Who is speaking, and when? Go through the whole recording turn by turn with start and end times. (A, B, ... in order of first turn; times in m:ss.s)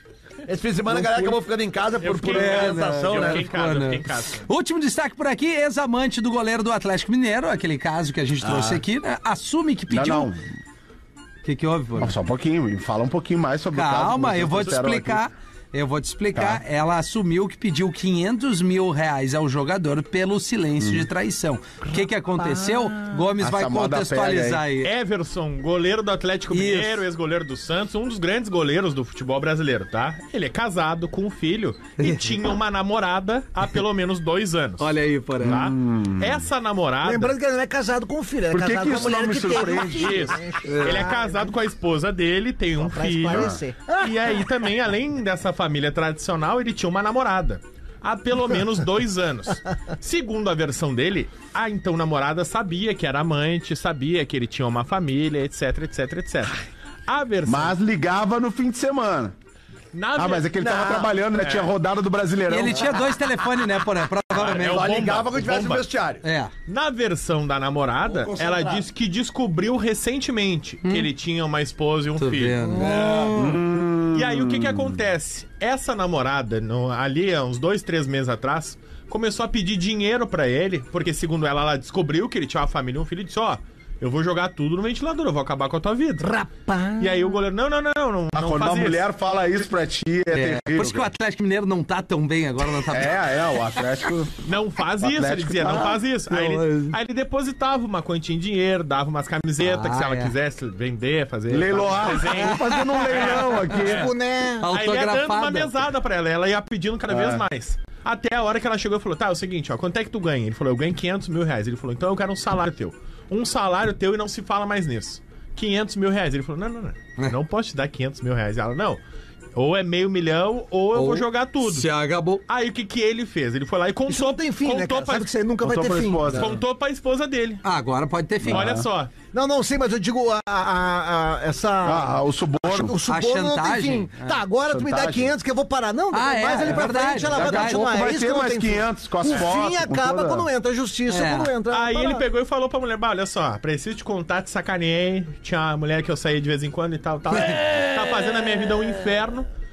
0:00.4-0:03.5 A
0:00.9-0:01.4 B
0:02.0-0:04.4 C
0:02.3-0:10.3 D
0:08.4-0:08.8 B
0:09.9-0:10.4 B
0:11.4-0:12.1 D
0:12.0-0:15.3 B
0:13.7-0:24.9 D
0:16.3-0:16.6 B
0:20.8-0:21.1 B
0:21.9-0:23.1 E
0:23.4-0:24.6 B
0:24.8-0:34.9 C
0:26.5-0:27.0 D
0:32.0-0:32.2 D
0:34.8-0:35.6 D
0:35.4-0:36.4 B
0:35.4-0:37.4 C
0:37.0-0:41.5 E
0:38.5-0:40.3 B
0:39.8-0:57.7 C
0:40.6-0:41.1 D
0:42.8-0:44.4 E
0:43.3-0:43.6 B
0:57.4-0:59.3 B
0:59.9-1:00.5 C
1:00.2-1:02.9 B
1:00.6-1:01.1 A
1:02.5-1:05.0 D
1:04.4-1:05.8 C
1:04.4-1:06.2 A
1:06.2-1:06.5 D
1:06.7-1:12.7 C
1:08.0-1:08.8 A
1:12.2-1:13.2 D
1:12.7-1:13.3 E
1:12.8-1:13.4 A
1:13.3-1:15.0 B
1:14.1-1:26.3 C
1:26.2-1:27.4 E
1:27.0-1:29.0 C
1:28.3-1:31.1 B
1:30.3-1:33.2 D
1:32.8-1:34.3 B
1:34.4-1:44.1 C
1:35.0-1:36.0 B
1:36.3-1:37.0 D
1:39.6-1:40.3 D
1:41.5-1:44.1 B
1:42.4-1:43.2 D
1:43.8-1:44.7 E
1:44.6-1:45.7 D
1:44.7-1:59.0 C
1:47.1-1:47.4 B
1:59.5-2:01.9 C
2:00.9-2:02.4 D
2:02.5-2:05.3 C
2:04.1-2:06.5 E
2:05.6-2:06.6 B
2:06.3-2:07.6 C
2:07.6-2:08.7 D
2:08.4-2:08.9 B
2:08.5-2:09.1 C
2:09.3-2:22.2 E
2:11.8-2:13.0 B
2:13.1-2:14.4 D
2:14.7-2:15.3 B
2:16.1-2:17.8 D
2:16.8-2:20.5 B
2:21.1-2:21.5 D
2:21.7-2:29.5 C